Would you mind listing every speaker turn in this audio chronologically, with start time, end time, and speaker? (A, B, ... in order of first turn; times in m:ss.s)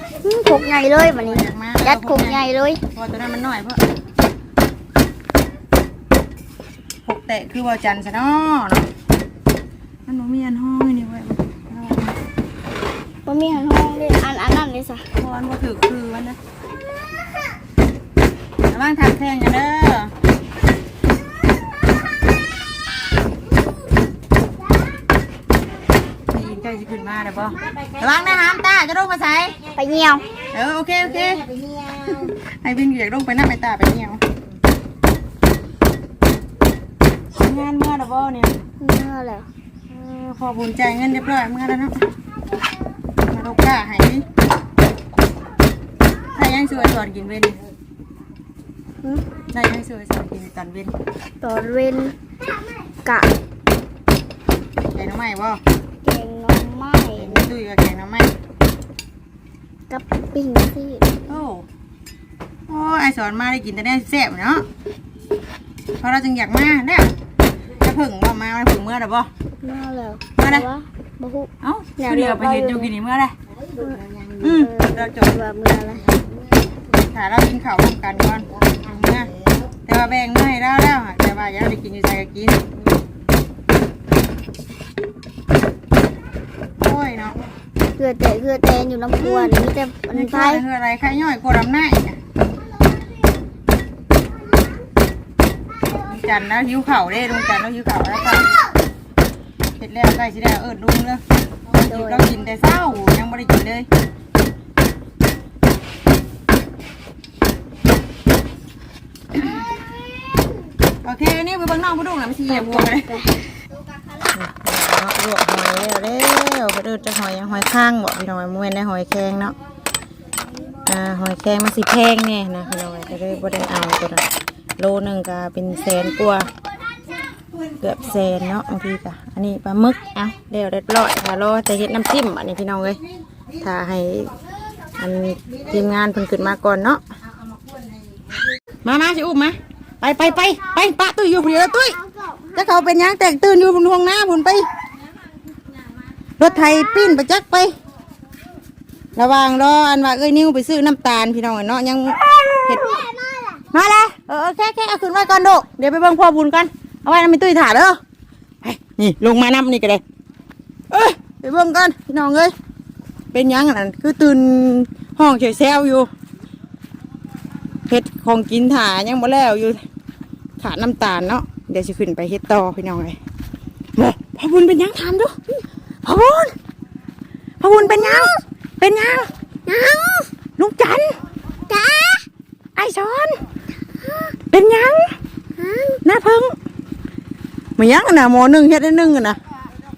0:00.2-0:02.8 A
0:01.0-0:03.8 B
0:07.1-0:08.9 B
0:10.1-0:12.2 B
0:13.3-0:15.1 A
0:15.2-0:16.4 B
0:18.7-0:20.1 B
0:26.3-0:29.6 B
0:27.6-0:28.6 C
0:29.6-0:32.3 C
0:29.7-0:30.3 A
0:30.5-0:31.4 B
0:32.2-0:34.2 B
0:37.4-0:38.6 B
0:38.8-0:39.5 A
0:39.9-0:42.0 B
0:43.3-0:44.2 B
0:46.4-0:47.6 B
0:49.5-0:50.9 B
0:51.4-0:52.2 A
0:53.0-0:53.3 A
0:54.9-0:55.6 B
0:56.0-0:57.4 A
0:57.1-0:58.3 B
0:59.9-1:01.3 A
1:01.3-1:01.6 B
1:02.7-1:04.7 B
1:06.0-1:07.1 B
1:07.8-1:09.3 B
1:09.6-1:12.9 A
1:10.4-1:10.7 B
1:11.6-1:13.4 B
1:13.6-1:14.6 C
1:14.4-1:15.3 B
1:14.5-1:16.1 A
1:16.0-1:16.7 C
1:17.0-1:19.3 B
1:18.5-1:19.5 C
1:19.9-1:22.6 B
1:26.8-1:27.4 B
1:28.0-1:30.6 A
1:29.2-1:32.2 B
1:36.0-1:38.6 B
1:39.8-1:43.9 B
1:41.9-1:42.2 A
1:51.0-1:53.1 B
1:52.5-1:53.4 A
1:54.3-1:59.6 B
2:00.9-2:04.2 B
2:04.8-2:06.5 B
2:07.4-2:07.6 C
2:07.8-2:13.0 B
2:13.6-2:14.3 B
2:15.0-2:17.0 B
2:17.2-2:18.4 C
2:18.8-2:22.0 B
2:22.1-2:22.5 A
2:22.5-2:24.7 B
2:26.4-2:27.7 B
2:29.2-2:33.1 B
2:32.7-2:33.6 A
2:33.7-2:38.0 B
2:38.6-2:40.0 B
2:40.9-2:42.5 B
2:43.3-2:46.1 B
2:47.9-2:49.8 B
2:50.6-2:53.2 B
2:54.0-2:55.3 B
2:56.0-2:56.5 B
2:57.6-2:59.3 B
2:58.0-2:58.3 A
2:59.7-3:00.3 A
3:00.6-3:01.2 B
3:01.7-3:02.2 A
3:02.8-3:03.4 B
3:04.5-3:05.2 B
3:05.6-3:06.0 A
3:06.0-3:06.6 B
3:07.8-3:09.4 B